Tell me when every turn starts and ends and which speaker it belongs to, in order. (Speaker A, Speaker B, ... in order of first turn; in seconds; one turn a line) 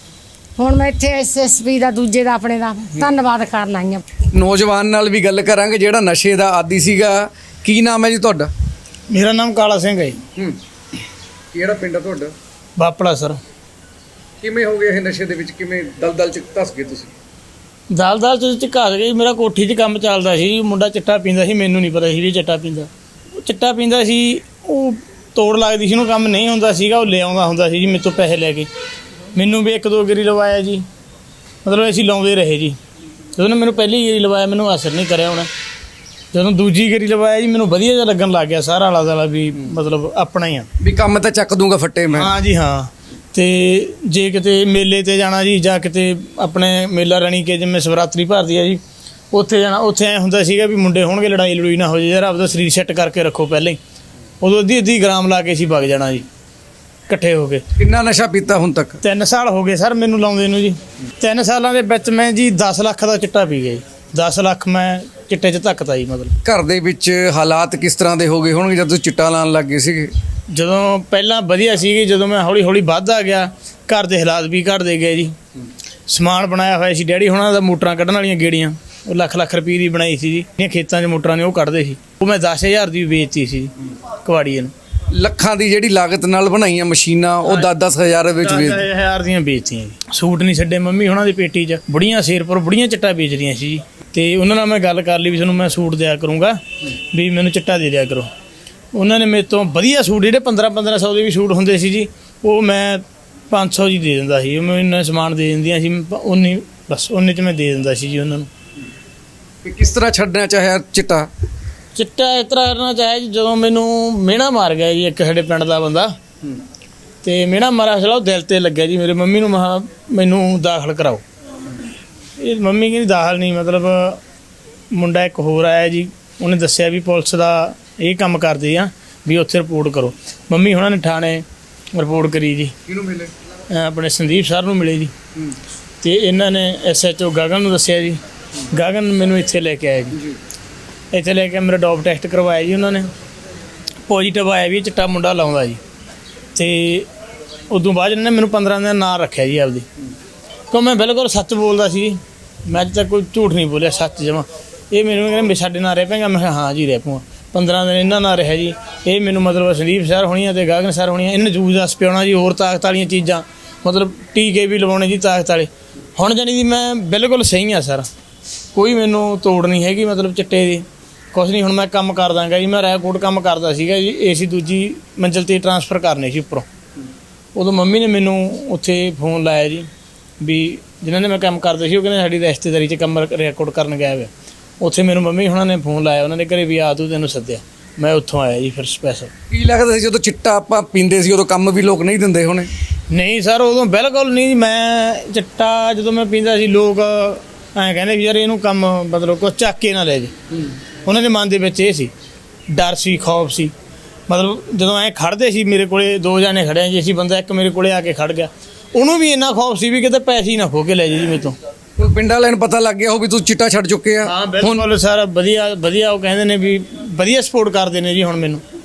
Speaker A: 0.6-4.0
Speaker B: 4.3-8.5
Speaker C: 9.1-10.2
Speaker B: 11.5-12.3
Speaker C: 12.8-13.4
Speaker B: 14.4-17.1
Speaker C: 17.9-28.7
Speaker C: 29.3-30.9
Speaker C: 31.6-32.8
Speaker C: 33.3-35.5
Speaker C: 36.3-40.7
Speaker B: 40.8-42.3
Speaker C: 42.1-48.8
Speaker C: 49.3-53.8
Speaker C: 54.4-56.2
Speaker C: 57.1-57.6
Speaker B: 57.8-59.0
Speaker C: 59.0-66.3
Speaker B: 66.4-70.1
Speaker C: 70.5-75.3
Speaker C: 76.1-84.7
Speaker B: 85.1-88.9
Speaker C: 88.4-98.3
Speaker C: 98.9-108.5
Speaker B: 109.6-111.3
Speaker C: 111.9-116.1
Speaker C: 117.2-121.2
Speaker C: 122.4-124.2
Speaker C: 124.9-132.8
Speaker B: 132.9-133.3
Speaker C: 133.7-135.1
Speaker C: 136.0-138.2
Speaker C: 138.7-140.2
Speaker B: 140.1-140.4
Speaker C: 141.1-143.1
Speaker C: 144.1-145.8
Speaker C: 146.5-147.1
Speaker C: 147.7-149.9
Speaker C: 150.7-168.1
Speaker C: 168.7-176.7
Speaker C: 177.5-179.9
Speaker C: 180.4-189.3
Speaker B: 189.5-192.7
Speaker C: 193.1-200.3
Speaker C: 201.0-202.1
Speaker C: 202.7-203.7
Speaker C: 204.3-211.6
Speaker B: 212.0-214.8
Speaker C: 214.2-218.6